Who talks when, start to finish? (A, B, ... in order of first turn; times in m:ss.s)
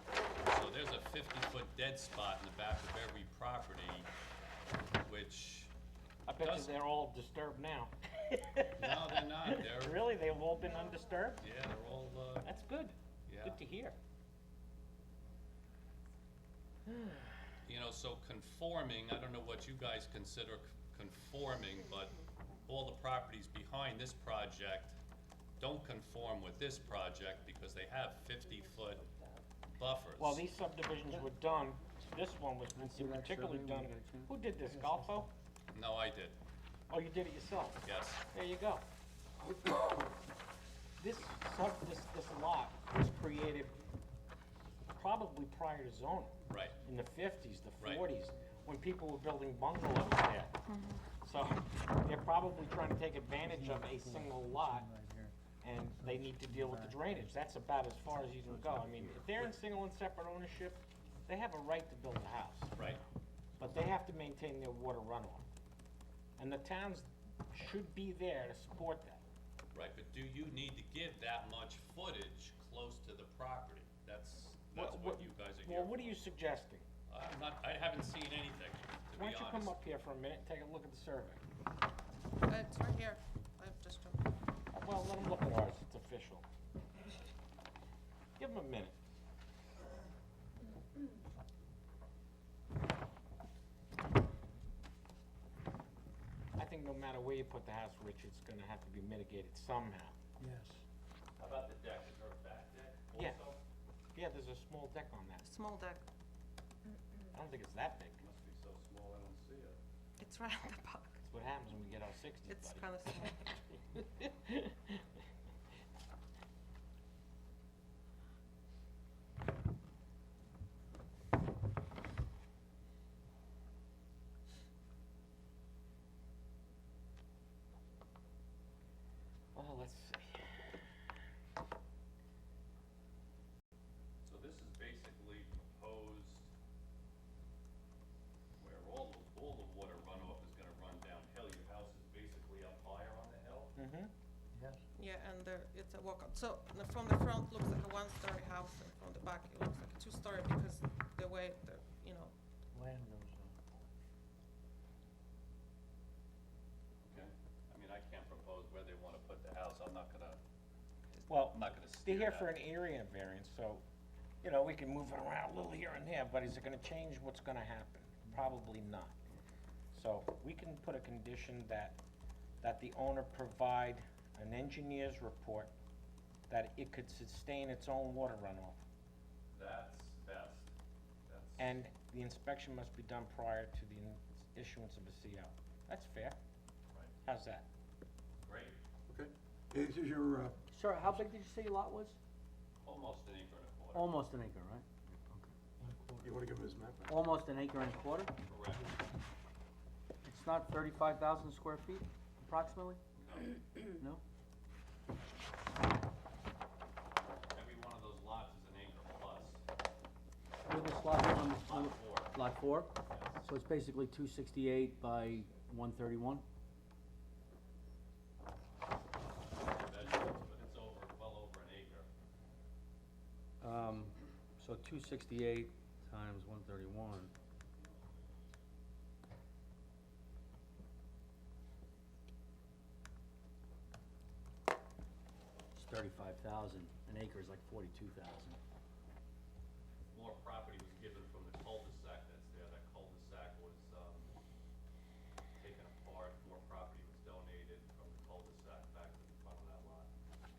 0:00.4-0:04.1 A
0:05.0-0:05.7 A
0:06.3-0:11.5 B
0:06.4-0:06.7 A
0:08.8-0:10.0 A
0:11.4-0:12.5 A
0:12.4-0:14.0 B
0:13.3-0:13.6 A
0:16.9-0:17.3 B
0:17.6-0:25.0 A
0:25.6-0:29.1 A
0:29.7-0:30.4 A
0:30.2-0:35.3 B
0:32.8-0:34.3 C
0:34.6-0:35.3 D
0:35.7-0:36.4 A
0:36.9-0:38.8 B
0:37.8-0:38.2 A
0:41.0-0:43.8 B
0:44.9-0:50.6 B
0:46.5-0:46.8 A
0:47.8-0:48.1 A
0:50.7-0:51.1 E
0:51.2-0:54.9 B
0:53.4-0:55.3 D
0:55.6-1:02.8 B
0:55.9-0:57.4 D
0:58.7-0:59.0 D
1:02.8-1:03.0 A
1:03.6-1:05.4 B
1:06.4-1:09.2 B
1:09.7-1:16.2 A
1:14.8-1:16.8 B
1:17.1-1:19.8 A
1:19.2-1:21.4 B
1:22.5-1:24.3 E
1:24.7-1:26.4 B
1:28.4-1:29.0 B
1:36.6-1:40.1 B
1:40.4-1:40.8 D
1:41.4-1:43.6 A
1:43.1-1:43.4 B
1:44.2-1:45.4 B
1:45.4-1:46.0 E
1:47.3-1:48.2 B
1:48.2-1:49.8 A
1:50.2-1:51.2 E
1:51.2-1:54.9 B
1:52.5-1:53.4 E
2:09.6-2:10.6 B
2:14.2-2:16.5 A
2:18.6-2:23.8 A
2:23.8-2:24.1 B
2:24.5-2:24.8 D
2:25.0-2:32.3 E
2:32.7-2:33.6 D
2:37.0-2:40.4 A
2:41.2-2:42.5 A
2:41.3-2:43.8 B
2:44.4-2:49.2 B
2:49.9-2:52.0 B
2:52.6-2:55.7 B
2:56.5-2:58.8 B
2:59.5-3:00.7 A
3:01.3-3:01.8 A
3:01.6-3:06.4 B
3:07.2-3:07.7 B
3:08.4-3:08.8 A
3:09.1-3:10.6 F
3:10.7-3:12.2 C
3:12.8-3:14.2 A
3:13.9-3:15.5 C
3:15.8-3:16.6 D
3:16.2-3:17.2 F
3:17.1-3:18.3 C
3:18.4-3:18.9 A
3:20.2-3:23.0 C
3:23.2-3:23.6 A
3:24.0-3:24.2 C
3:27.5-3:29.6 A
3:30.7-3:36.4 C
3:31.3-3:32.4 A
3:33.1-3:33.5 A
3:39.2-3:42.1 A
3:43.6-3:47.3 C
3:55.8-3:58.6 C
4:00.1-4:04.3 A
4:05.6-4:10.1 A